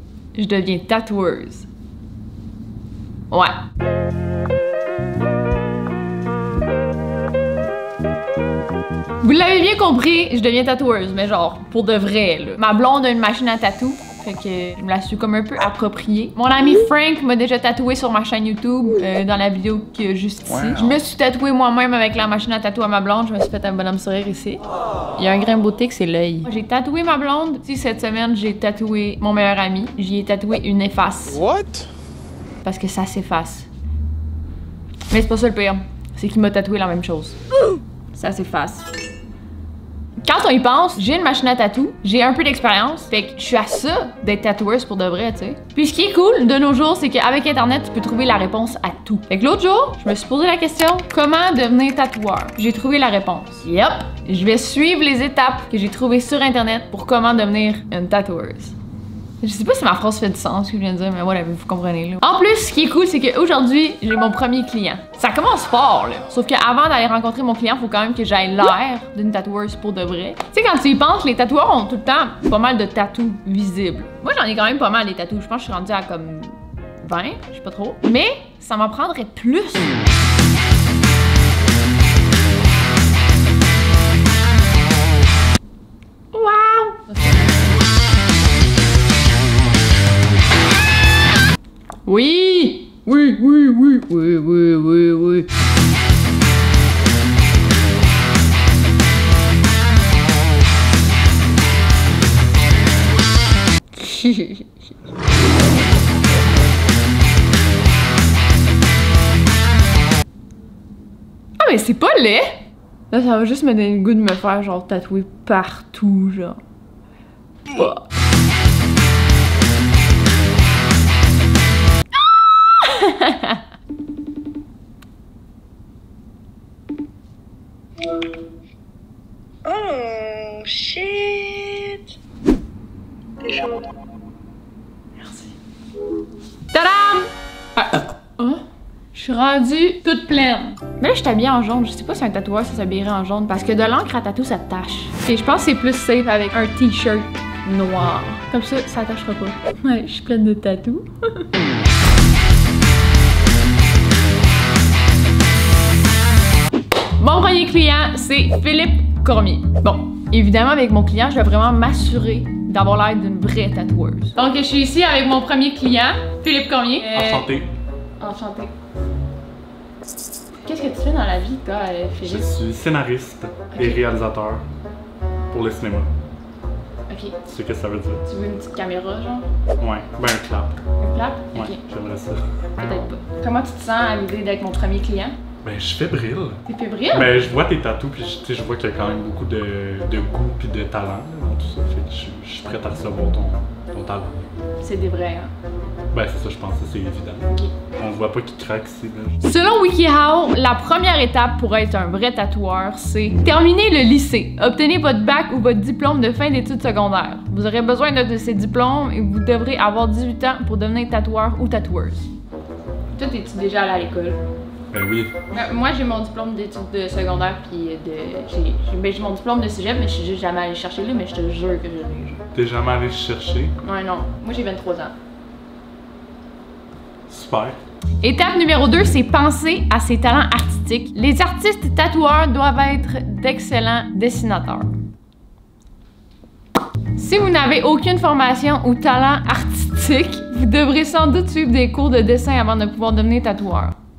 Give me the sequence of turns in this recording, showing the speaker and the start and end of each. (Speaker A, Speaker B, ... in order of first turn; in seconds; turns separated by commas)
Speaker A: 0.3-1.7, Speaker A: 9.2-24.6, Speaker A: 25.1-31.5, Speaker A: 32.6-33.7, Speaker A: 35.1-37.4, Speaker A: 38.1-38.9, Speaker A: 40.2-58.7, Speaker A: 59.4-80.0, Speaker A: 86.3-87.6, Speaker A: 92.0-95.5, Speaker A: 104.0-104.6, Speaker A: 111.6-116.6, Speaker A: 117.7-118.0, Speaker A: 122.7-123.6, Speaker B: 129.7-132.0, Speaker B: 133.4-133.8, Speaker A: 135.2-135.5, Speaker A: 136.7-138.6, Speaker A: 139.1-151.5, Speaker A: 157.2-167.5, Speaker C: 167.1-167.7, Speaker A: 168.2-168.7, Speaker A: 170.6-172.5, Speaker C: 172.2-174.6, Speaker A: 173.7-174.2, Speaker C: 175.5-176.1, Speaker A: 177.1-177.4, Speaker C: 177.5-178.2, Speaker A: 178.2-179.5, Speaker C: 179.8-180.8, Speaker A: 181.0-181.8, Speaker C: 181.5-182.4, Speaker A: 182.8-185.4, Speaker C: 185.6-194.5, Speaker A: 186.7-187.3, Speaker A: 194.8-195.5, Speaker C: 196.1-199.4, Speaker A: 199.4-212.3, Speaker A: 213.1-214.4, Speaker C: 214.9-215.3, Speaker A: 215.5-222.4, Speaker C: 222.5-223.7, Speaker A: 223.8-225.1, Speaker C: 227.3-227.8, Speaker A: 228.2-234.9, Speaker A: 237.2-244.0